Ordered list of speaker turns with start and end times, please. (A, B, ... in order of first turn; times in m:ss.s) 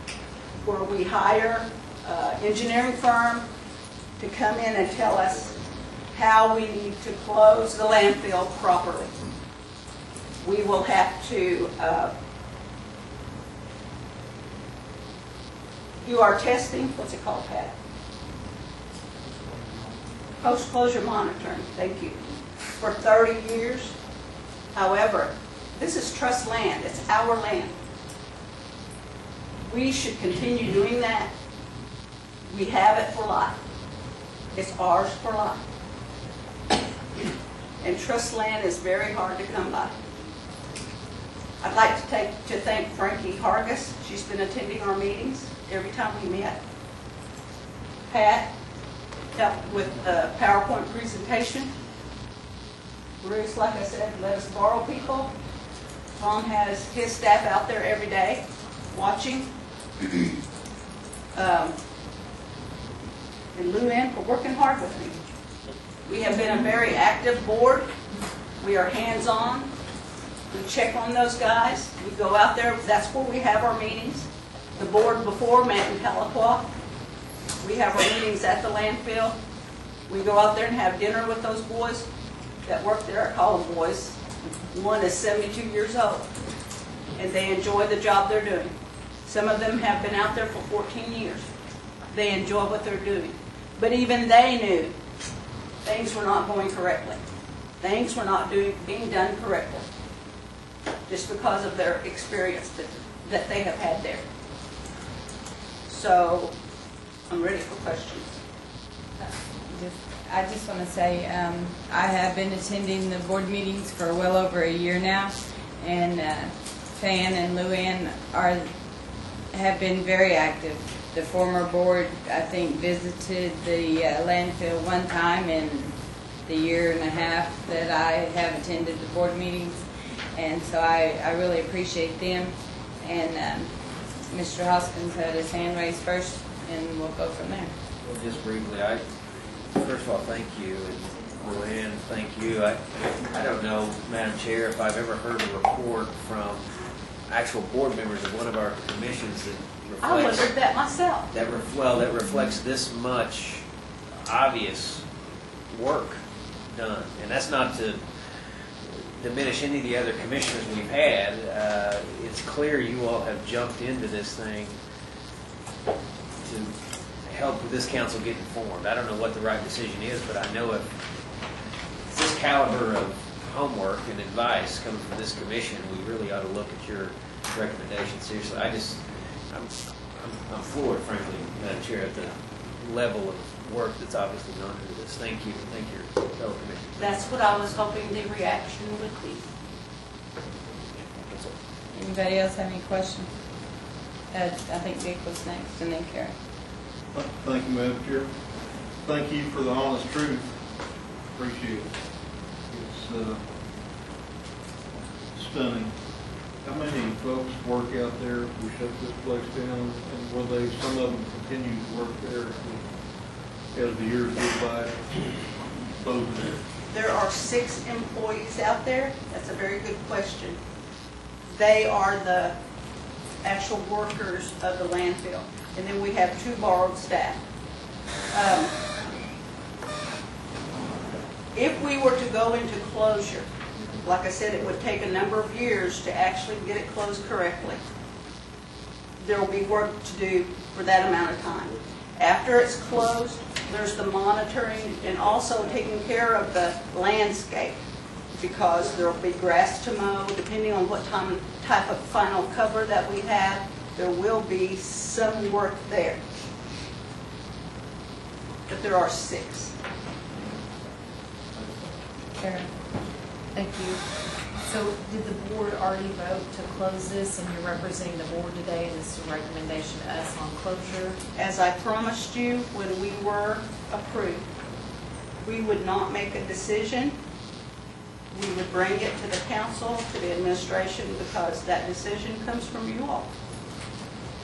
0:00.6-0:03.4 A
0:04.2-0:05.5 A
0:06.1-0:09.1 A
0:10.4-0:12.1 A
0:16.0-0:17.7 A
0:20.4-0:22.2 A
0:22.8-0:23.9 A
0:24.7-0:27.7 A
0:29.6-0:31.3 A
0:32.5-0:33.6 A
0:34.5-0:35.6 A
0:37.8-0:39.9 A
0:41.6-0:46.6 A
0:48.1-0:48.5 A
0:49.3-0:51.7 A
0:53.2-0:55.3 A
0:56.2-0:59.5 A
1:01.3-1:01.8 A
1:03.5-1:05.2 A
1:06.1-1:07.9 A
1:08.6-1:09.7 A
1:10.5-1:16.7 A
1:17.6-1:19.3 A
1:20.1-1:22.1 A
1:22.6-1:24.2 A
1:24.7-1:26.3 A
1:27.2-1:28.7 A
1:29.2-1:31.5 A
1:32.1-1:34.9 A
1:35.8-1:37.2 A
1:37.8-1:39.8 A
1:41.1-1:44.2 A
1:45.8-1:46.5 A
1:47.3-1:48.4 A
1:49.2-1:58.7 B
1:59.5-2:17.7 B
2:18.0-2:19.0 C
2:19.7-2:26.6 C
2:27.3-2:30.5 C
2:30.0-2:31.3 A
2:31.3-2:33.6 C
2:34.2-2:35.0 C
2:35.7-2:44.7 C
2:46.4-2:46.7 C
2:47.2-2:50.9 C
2:52.1-3:07.0 C
3:07.0-3:09.4 A
3:11.9-3:13.3 B
3:14.3-3:16.3 B
3:17.1-3:18.3 D
3:19.0-3:20.6 D
3:21.3-3:21.9 D
3:22.7-3:23.4 D
3:25.3-3:26.0 D
3:26.6-3:32.9 D
3:33.7-3:35.0 D
3:36.0-3:36.6 D
3:36.9-3:40.6 A
3:41.5-3:42.5 A
3:43.4-3:47.4 A
3:48.3-3:48.8 A
3:51.5-3:53.5 A
3:54.0-3:57.8 A
3:59.2-4:07.8 A
4:08.4-4:16.2 A
4:18.7-4:19.7 A
4:23.5-4:24.0 E
4:24.6-4:31.2 E
4:31.3-4:34.4 A
4:35.4-4:37.2 A
4:38.3-4:43.3 A